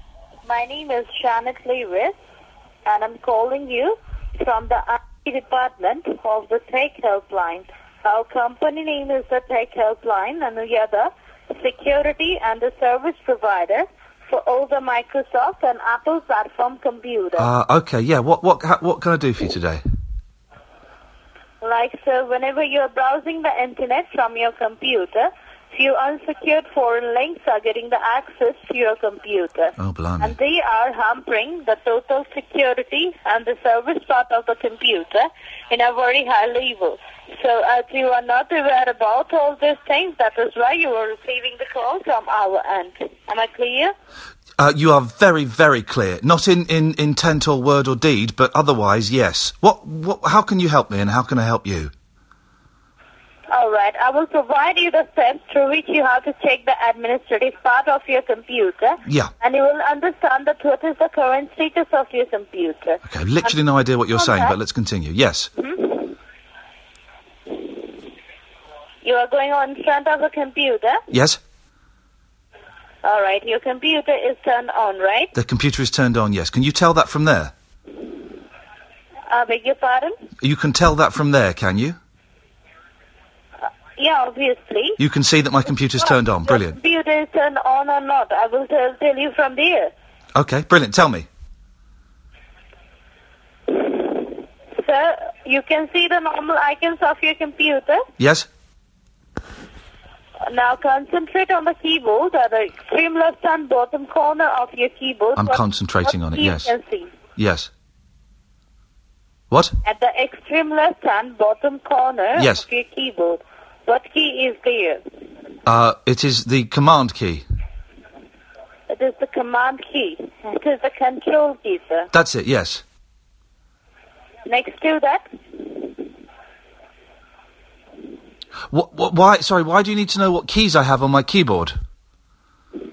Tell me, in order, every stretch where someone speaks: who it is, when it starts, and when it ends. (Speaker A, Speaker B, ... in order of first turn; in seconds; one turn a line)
Speaker A: 0.5-2.1
Speaker A: 2.9-17.5
Speaker B: 17.4-19.8
Speaker A: 21.6-44.0
Speaker B: 29.8-30.4
Speaker B: 44.6-51.9
Speaker A: 53.5-63.6
Speaker B: 59.0-59.3
Speaker B: 63.1-65.5
Speaker A: 64.1-64.6
Speaker A: 65.6-66.2
Speaker A: 69.0-71.0
Speaker B: 71.1-71.4
Speaker A: 73.0-75.3
Speaker B: 75.3-77.5
Speaker A: 79.3-80.3
Speaker B: 80.4-82.0
Speaker A: 84.0-85.0
Speaker B: 85.0-86.8
Speaker A: 86.0-89.9
Speaker B: 90.3-91.3
Speaker A: 93.7-98.1
Speaker B: 98.2-98.5
Speaker A: 100.5-107.1
Speaker B: 105.4-106.7
Speaker B: 107.4-107.7
Speaker A: 109.8-115.0
Speaker B: 112.3-112.7
Speaker B: 115.7-117.4
Speaker A: 118.9-122.1
Speaker B: 122.1-122.8
Speaker A: 124.5-125.3
Speaker B: 128.7-131.7